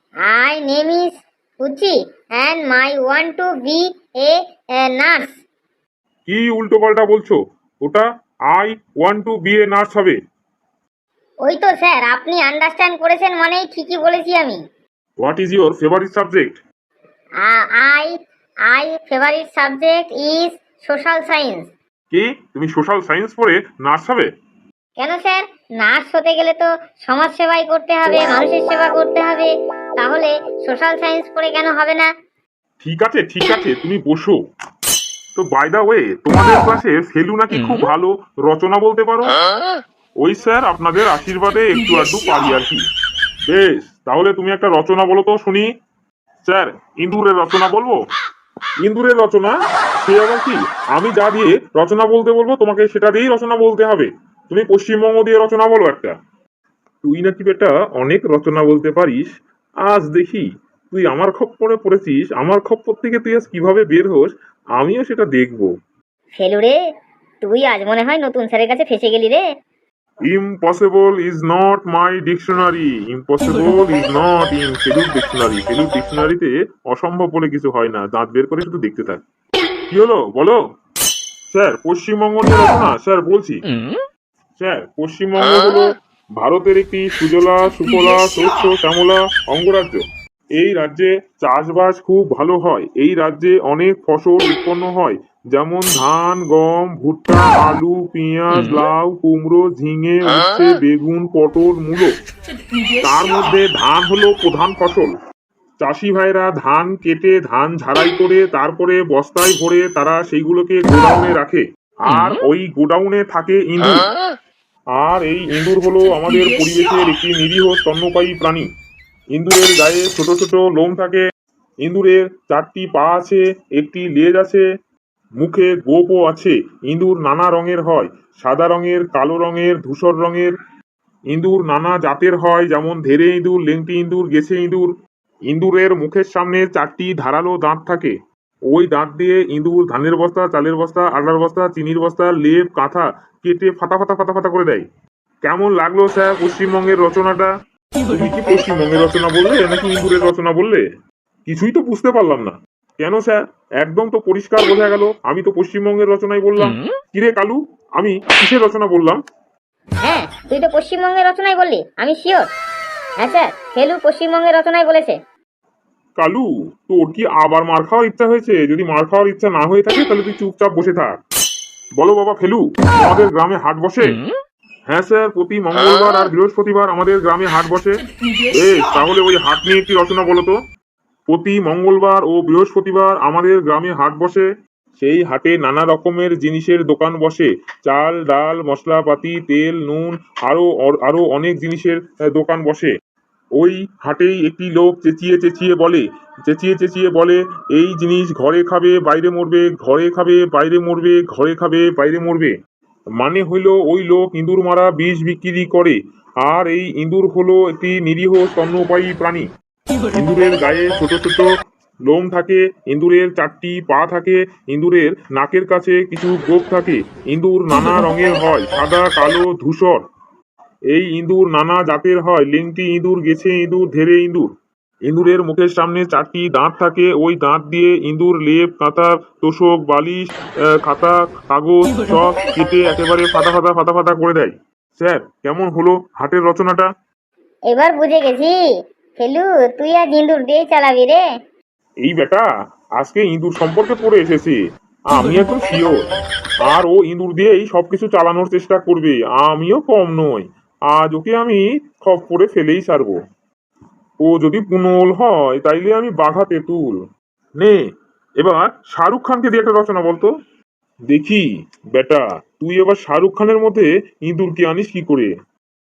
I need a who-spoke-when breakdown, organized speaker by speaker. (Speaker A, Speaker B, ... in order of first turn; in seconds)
Speaker A: 0.3-5.4, 11.4-14.6, 17.4-18.1, 18.7-21.7, 25.0-32.1, 66.3-66.8, 67.4-69.4, 160.0-162.5, 163.2-165.2, 237.7-238.6, 239.2-241.2
Speaker B: 6.2-10.2, 15.2-16.6, 22.1-24.3, 32.8-34.4, 35.4-39.4, 40.2-42.8, 43.5-45.7, 46.4-48.0, 48.8-56.1, 57.0-59.3, 59.8-65.7, 70.3-79.2, 79.9-80.6, 81.5-83.6, 84.6-90.0, 90.6-102.1, 103.0-105.1, 105.8-114.0, 115.0-118.7, 119.3-121.2, 121.8-124.7, 125.4-130.5, 131.3-134.9, 135.5-138.1, 138.7-144.8, 145.4-147.5, 148.1-150.8, 151.5-159.2, 166.2-171.2, 172.0-174.2, 174.9-178.0, 178.5-180.6, 181.3-184.5, 185.0-192.9, 193.6-202.5, 203.2-209.5, 210.1-211.5, 212.1-220.0, 220.9-224.5, 225.1-230.3, 230.8-236.9, 242.0-242.5, 243.0-244.6, 245.1-246.0, 246.7-253.2, 254.2-257.0, 258.4-260.3, 261.1-261.4, 261.9-265.3